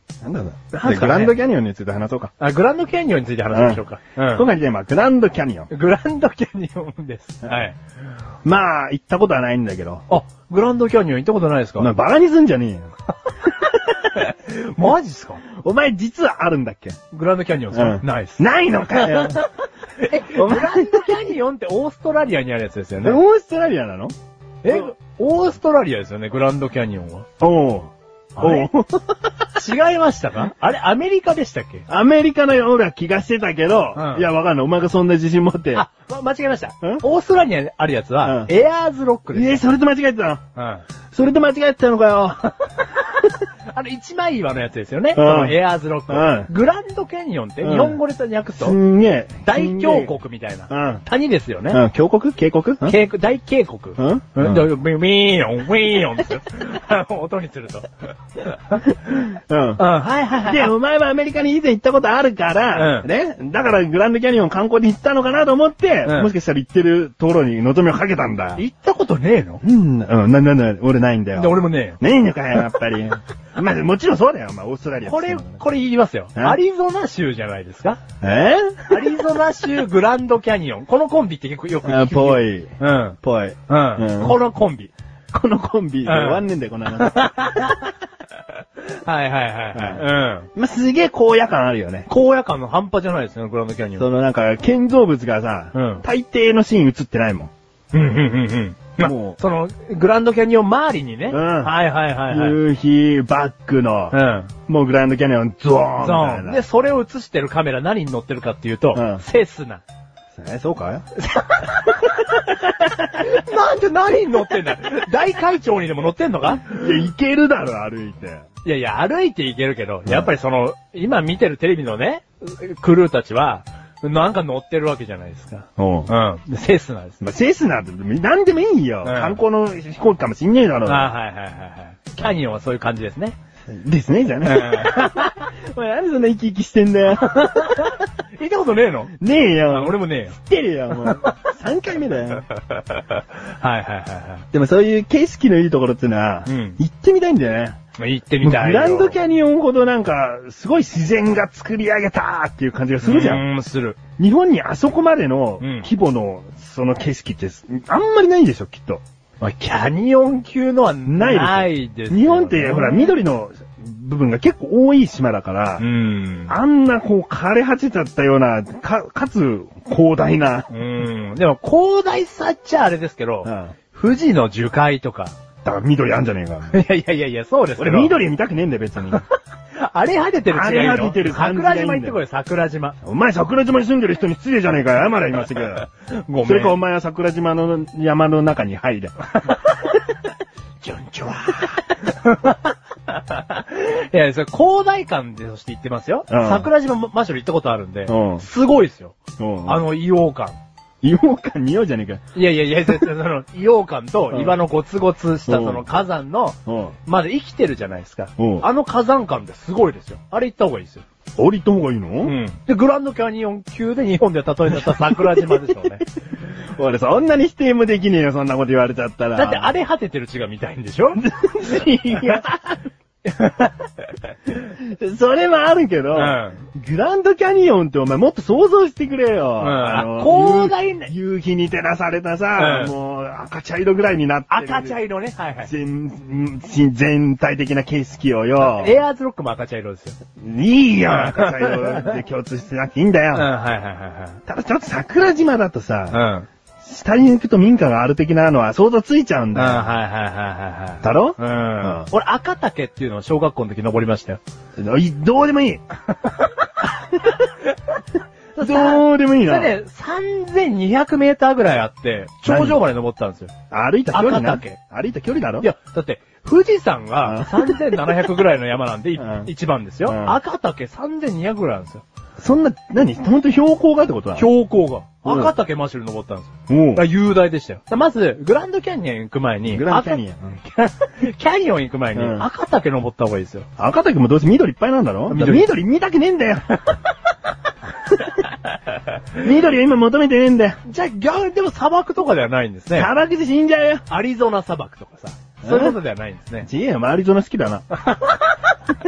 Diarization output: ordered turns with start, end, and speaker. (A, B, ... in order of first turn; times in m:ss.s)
0:00.2-0:02.3 A
0:00.7-0:01.4 B
0:02.4-0:04.5 B
0:03.5-0:05.7 A
0:05.7-0:07.8 B
0:08.4-0:10.1 A
0:10.1-0:11.9 B
0:11.8-0:12.9 A
0:14.0-0:15.4 B
0:15.5-0:17.0 A
0:17.1-0:19.4 B
0:17.7-0:19.4 A
0:20.0-0:23.2 B
0:20.1-0:21.2 A
0:23.0-0:24.1 A
0:24.6-0:27.2 B
0:27.4-0:29.3 A
0:28.4-0:28.7 B
0:29.5-0:31.8 B
0:31.9-0:35.8 A
0:33.9-0:34.3 B
0:35.7-0:39.6 B
0:38.2-0:38.5 A
0:39.3-0:40.4 A
0:40.5-0:40.8 B
0:41.1-0:42.5 A
0:43.7-0:48.8 B
0:45.1-0:45.6 A
0:46.1-0:46.5 A
0:47.6-0:48.0 A
0:48.6-0:50.1 A
0:49.4-0:51.8 B
0:50.7-0:51.0 A
0:51.7-0:53.0 A
0:52.8-0:59.0 B
0:54.0-0:54.7 A
0:59.1-0:59.8 A
0:59.8-1:00.7 B
1:00.4-1:08.6 A
1:02.7-1:03.1 B
1:06.0-1:06.3 B
1:08.6-1:09.6 B
1:09.6-1:15.6 A
1:11.3-1:12.0 B
1:15.0-1:18.0 B
1:18.2-1:19.1 A
1:18.9-1:24.9 B
1:21.8-1:22.7 A
1:23.2-1:24.4 A
1:25.3-1:27.8 A
1:26.0-1:27.9 B
1:28.8-1:30.5 B
1:29.7-1:32.1 A
1:32.1-1:34.0 B
1:34.0-1:37.5 A
1:35.7-1:36.0 B
1:37.9-1:42.6 B
1:39.0-1:39.4 A
1:41.3-1:41.7 A
1:42.2-1:44.2 A
1:44.1-1:44.5 B
1:44.7-1:46.6 A
1:46.0-1:49.8 B
1:48.9-1:49.2 A
1:50.3-1:51.0 A
1:51.2-1:56.8 B
1:56.6-1:58.4 A
1:58.6-2:07.2 B
2:05.8-2:06.1 A
2:07.2-2:11.1 A
2:09.0-2:09.4 B
2:10.8-2:13.4 B
2:13.7-2:17.9 A
2:14.4-2:15.4 B
2:17.2-2:19.1 B
2:19.2-2:22.5 A
2:19.7-2:20.3 B
2:21.0-2:21.3 B
2:23.1-2:24.5 B
2:24.5-2:27.8 A
2:26.4-2:26.8 B
2:28.0-2:29.2 B
2:28.4-2:33.4 A
2:33.0-2:34.0 B
2:34.2-2:39.0 A
2:35.6-2:35.9 B
2:39.4-2:43.1 B
2:41.0-2:45.9 A
2:45.8-2:46.6 B
2:46.5-2:50.7 A
2:50.7-2:55.4 B
2:53.4-2:53.7 A
2:55.6-2:56.8 A
2:56.7-2:58.2 B
2:57.8-2:59.2 A
2:59.1-3:03.0 B
3:00.5-3:02.2 A
3:03.0-3:05.9 A
3:06.1-3:06.8 B
3:06.4-3:09.2 A
3:09.4-3:09.8 B
3:10.8-3:20.6 B
3:16.3-3:16.7 A
3:18.1-3:18.4 A
3:19.4-3:19.8 A
3:21.0-3:22.2 A
3:22.3-3:31.0 B
3:24.3-3:24.6 A
3:25.5-3:25.8 A
3:26.6-3:27.0 A
3:28.4-3:28.7 A
3:31.4-3:32.4 A
3:32.2-3:36.1 B
3:34.9-3:35.8 A
3:36.6-3:39.7 A
3:39.4-3:41.2 B
3:41.2-3:42.7 A
3:42.2-3:42.4 B
3:43.2-3:44.3 B
3:44.6-3:55.0 A
3:46.1-3:46.6 B
3:49.6-3:51.1 B
3:52.6-3:52.9 B
3:54.5-3:55.7 B
3:55.6-3:59.0 A
3:58.6-4:00.2 B
4:00.4-4:03.5 A
4:01.1-4:02.1 B
4:03.3-4:04.4 B
4:04.5-4:06.3 A
4:06.1-4:06.5 B
4:06.8-4:09.9 A
4:09.5-4:14.4 B
4:11.0-4:12.1 A
4:14.8-4:15.8 A
4:16.2-4:17.4 B
4:18.6-4:19.8 A
4:18.6-4:23.5 B
4:22.4-4:22.8 A
4:23.7-4:25.7 A
4:24.1-4:24.8 B
4:25.6-4:32.0 B
4:27.2-4:28.0 A
4:29.2-4:29.5 A
4:30.0-4:30.4 A
4:32.4-4:34.5 A
4:34.3-4:43.7 B
4:35.2-4:35.5 A
4:36.7-4:37.0 A
4:39.7-4:40.6 A
4:42.1-4:42.5 A
4:43.8-4:46.8 A
4:45.3-4:45.7 B
4:49.3-4:50.8 A
4:50.8-4:53.1 B
4:52.9-4:54.0 A
4:54.1-4:56.7 B
4:55.6-4:56.0 A
4:56.6-4:57.8 A
4:58.0-4:58.7 B